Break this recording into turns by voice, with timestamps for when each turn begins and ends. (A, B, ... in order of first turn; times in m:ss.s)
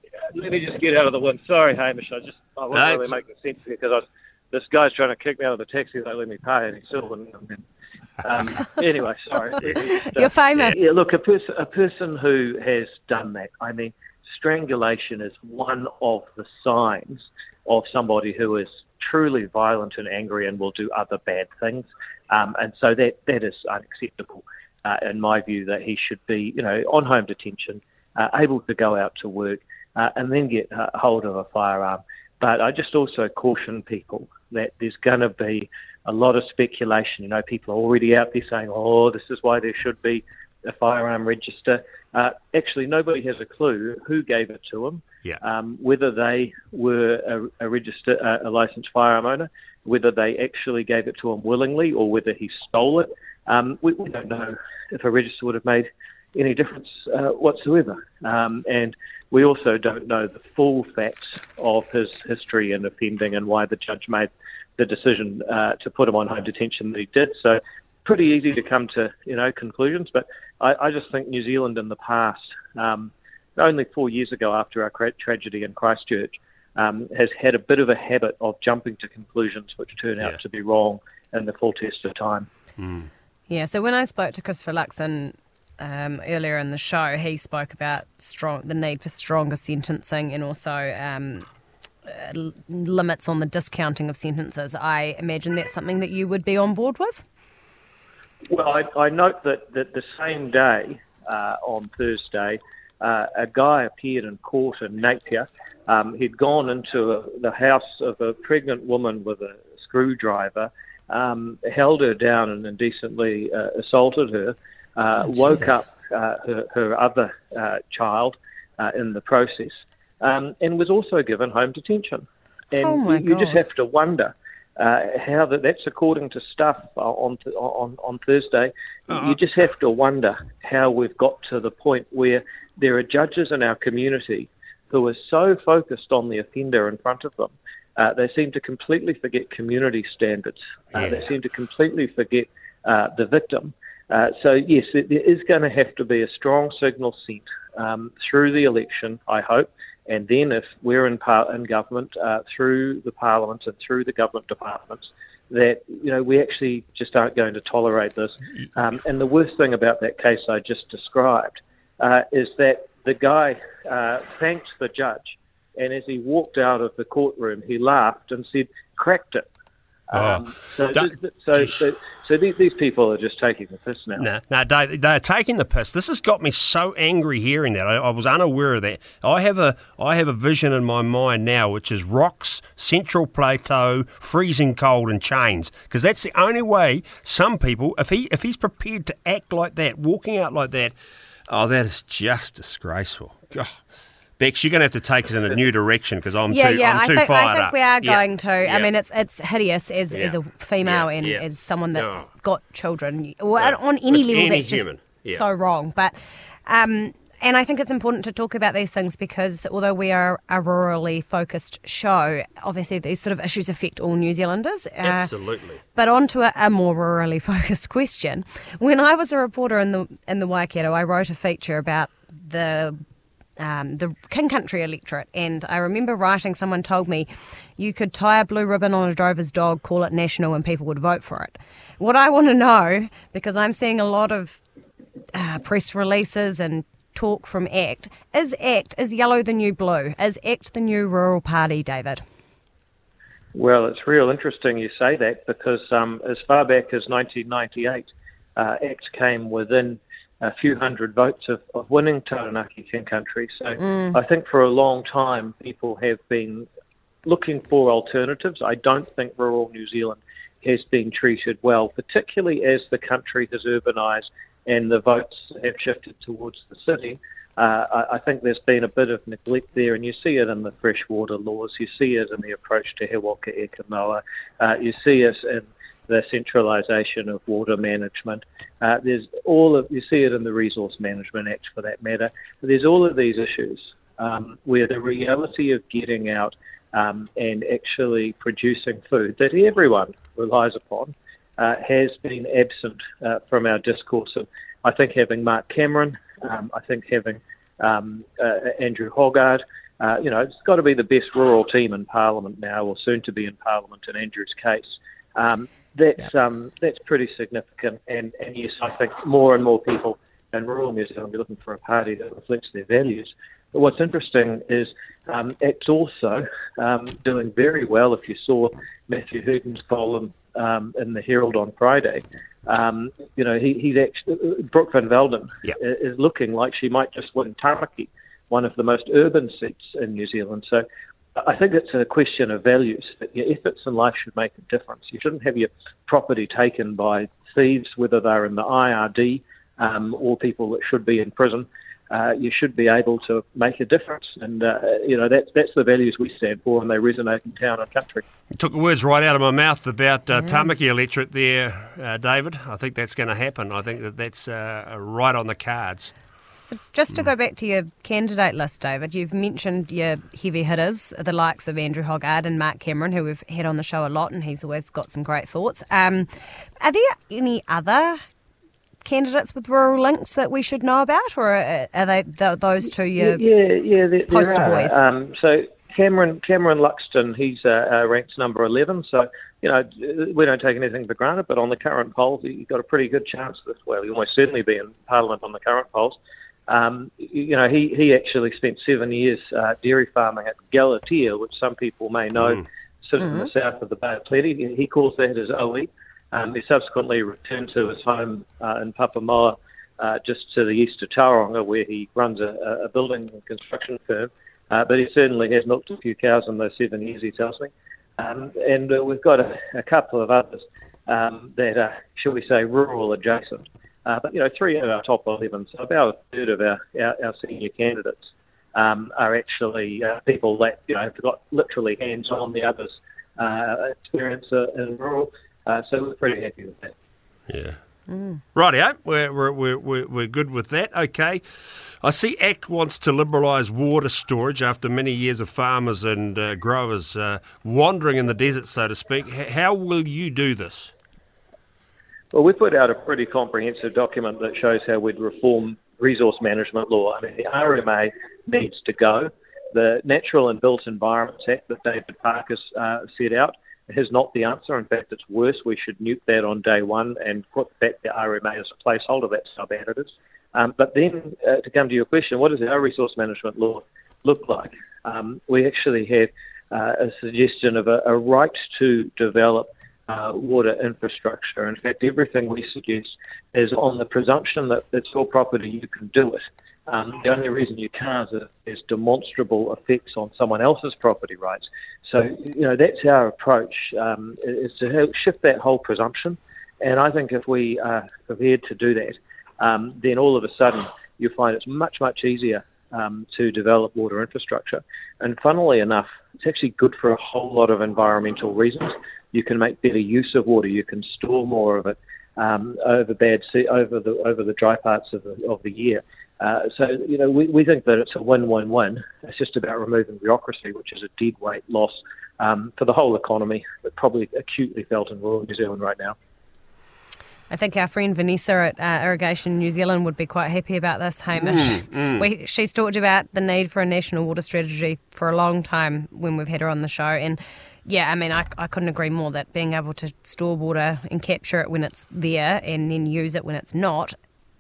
0:00.3-0:07.6 A
0:02.7-0:03.1 B
0:08.2-1:22.5 A
0:09.8-0:10.8 C
1:22.8-1:23.1 B
1:23.5-1:31.5 C
1:32.1-1:37.2 C
1:38.5-2:49.5 A
2:02.8-2:03.6 C
2:09.1-2:09.4 B
2:50.1-2:54.2 A
2:50.1-2:51.7 B
2:54.2-3:11.0 B
3:11.5-3:13.8 B
3:14.4-3:18.9 B
3:16.5-3:26.2 C
3:20.1-3:22.3 B
3:23.6-3:25.4 B
3:26.7-3:35.3 C
3:35.0-3:35.8 B
3:35.9-3:43.0 C
3:43.6-3:54.6 C
3:55.4-4:02.2 C
4:03.5-4:16.7 A
4:13.8-4:14.2 C
4:17.2-5:30.8 A
5:31.4-5:48.2 A
5:48.6-5:56.1 B
5:56.7-6:08.2 C
6:09.0-6:13.4 C
6:13.2-7:06.9 A
6:14.3-6:15.0 C
6:33.2-6:33.5 C
7:07.5-7:07.8 B
7:08.1-7:08.4 C
7:08.5-7:20.9 B
7:22.3-8:36.2 A
8:37.5-8:54.2 C
8:41.3-8:42.2 B